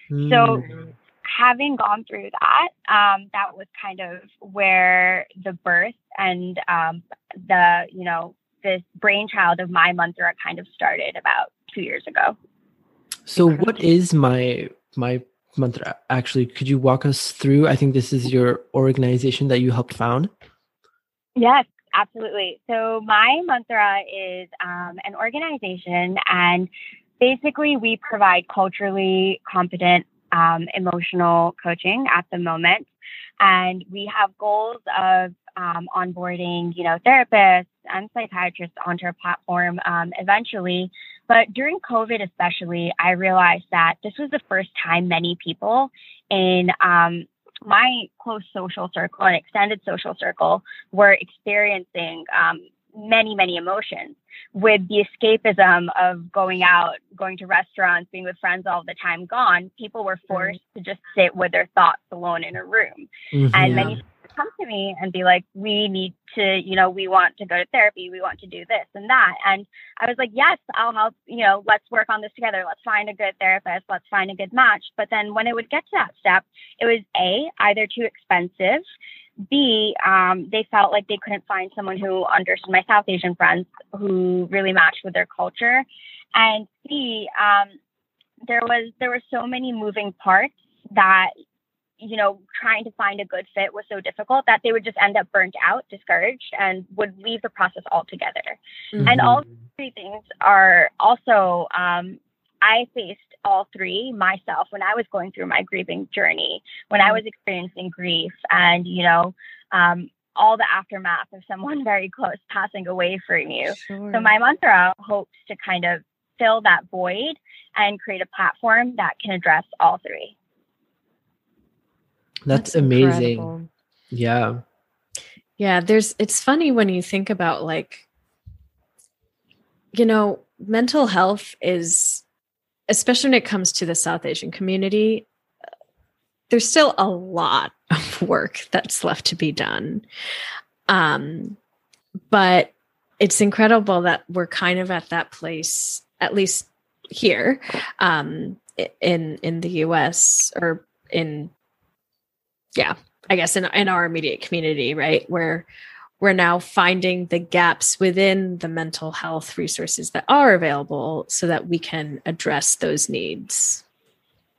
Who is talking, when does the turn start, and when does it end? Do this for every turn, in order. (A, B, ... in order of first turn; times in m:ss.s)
0:00.1-0:00.9 A
0:00.2-0:00.7 B
0:01.2-0:12.4 B
0:13.3-0:20.3 A
0:21.4-0:32.9 B
0:33.4-1:18.8 B
1:03.3-1:04.0 A
1:03.6-1:03.9 C
1:19.5-1:27.8 B
1:28.5-1:31.3 B
1:32.0-2:00.3 B
1:38.9-1:39.2 C
1:39.0-1:39.4 A
1:53.7-1:54.3 C
2:02.5-2:03.5 A
2:02.5-2:03.7 C
2:04.1-2:04.6 A
2:05.6-2:08.0 C
2:09.9-2:12.2 C
2:12.9-2:15.2 C
2:16.5-2:20.0 C
2:20.9-2:21.6 C
2:22.3-2:31.5 C
2:32.8-2:35.7 C
2:36.2-2:43.8 C